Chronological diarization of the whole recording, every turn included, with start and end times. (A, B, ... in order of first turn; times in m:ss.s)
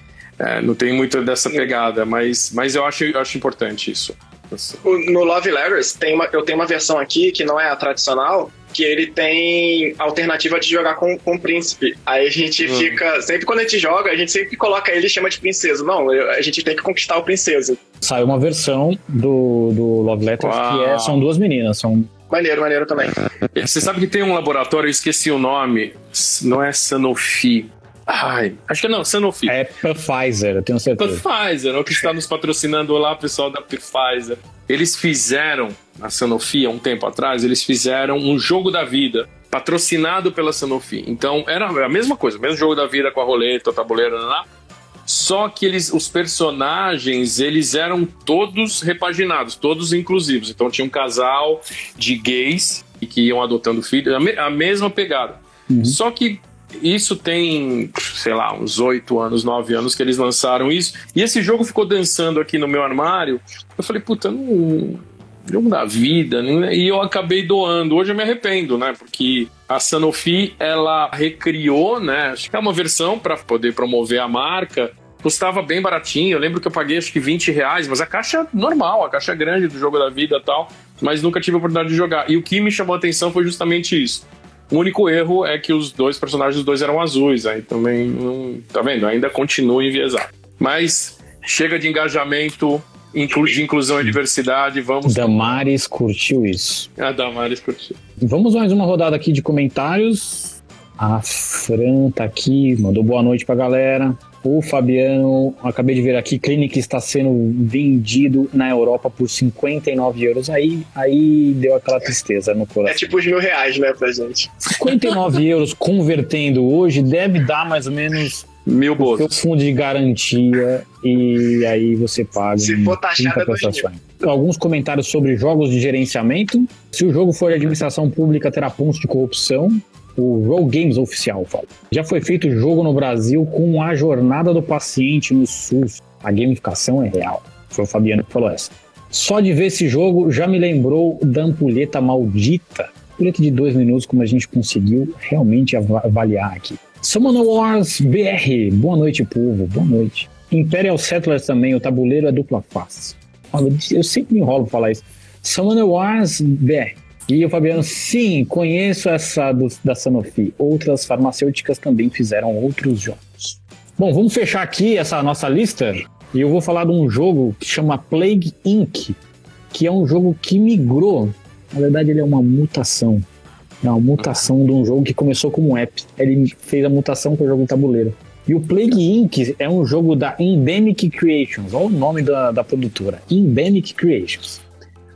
0:00.4-0:04.8 A
0:04.8-0:17.8 B
0:12.6-0:13.0 A
0:18.0-0:22.1 C
0:20.4-0:21.3 A
0:22.3-0:23.2 B
0:23.5-0:29.6 A
0:29.5-0:31.2 C
0:31.0-0:44.5 A
0:45.1-1:35.7 A
0:55.7-0:56.0 C
1:35.0-1:36.9 C
1:37.0-1:38.0 A
1:38.2-1:53.1 C
1:52.9-1:54.7 B
1:54.7-2:49.2 C
1:58.6-1:59.4 A
2:02.6-2:03.9 B
2:49.7-2:53.2 C
2:53.8-3:04.6 C